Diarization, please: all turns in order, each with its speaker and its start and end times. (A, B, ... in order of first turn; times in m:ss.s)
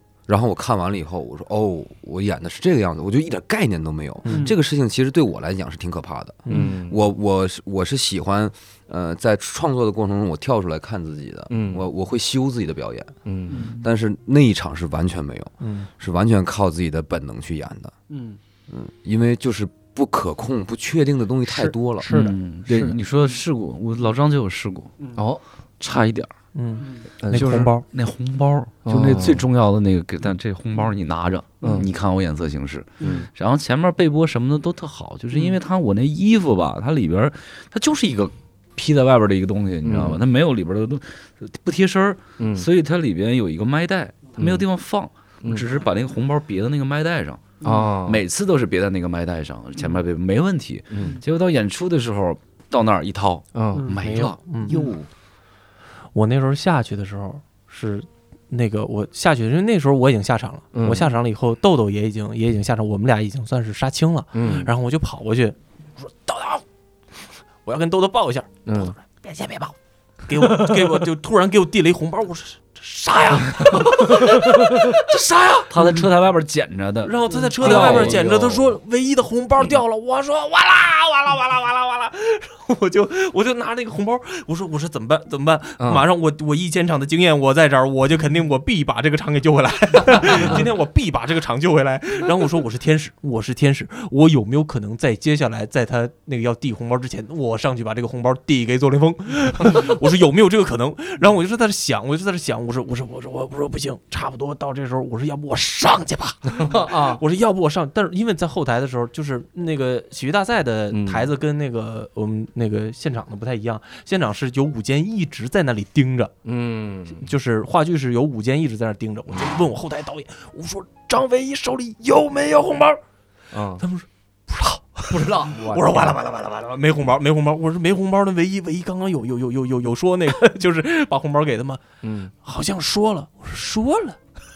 0:00.3-0:13.2 A
0:04.2-0:04.5 B
0:06.4-0:06.8 B
0:06.5-0:07.0 C
0:11.5-0:11.8 C
0:13.2-0:13.6 C
0:13.5-0:13.8 D
0:13.8-0:17.9 A
0:15.6-0:15.9 B
0:18.1-0:18.4 E
0:18.7-0:22.1 A
0:22.1-0:23.0 C
0:22.1-0:24.9 D
0:25.0-0:25.2 E
0:25.2-0:25.4 C
0:25.8-0:26.3 D
0:26.5-0:27.8 B
0:26.8-0:27.1 E
0:27.2-0:27.7 C
0:27.3-0:54.4 D
0:28.8-0:29.4 C
0:31.6-0:31.9 C
0:33.0-0:33.3 E
0:33.0-0:33.3 C
0:39.8-0:40.2 C
0:42.4-0:42.7 C
0:44.4-0:44.6 C
0:47.6-0:47.9 E
0:47.6-0:48.2 C
0:50.9-0:51.2 C
0:53.5-0:54.0 C
0:53.7-0:54.0 E
0:54.0-0:54.8 B
0:54.6-0:55.1 C
0:56.1-1:06.6 B
1:00.7-1:01.1 C
1:04.3-1:04.7 C
1:07.6-1:09.7 B
1:08.6-1:09.0 C
1:10.2-1:16.1 B
1:14.0-1:14.4 D
1:15.7-1:18.7 D
1:17.0-1:56.3 B
1:17.3-1:17.6 E
1:17.6-1:18.4 C
1:25.8-1:26.1 C
1:30.3-1:30.6 C
1:46.6-1:47.2 C
1:50.9-1:51.3 C
1:56.4-1:57.2 C
1:57.2-2:03.0 B
2:03.5-2:03.8 C
2:03.8-2:11.8 B
2:05.1-2:06.2 C
2:12.0-2:12.3 C
2:12.4-2:14.2 B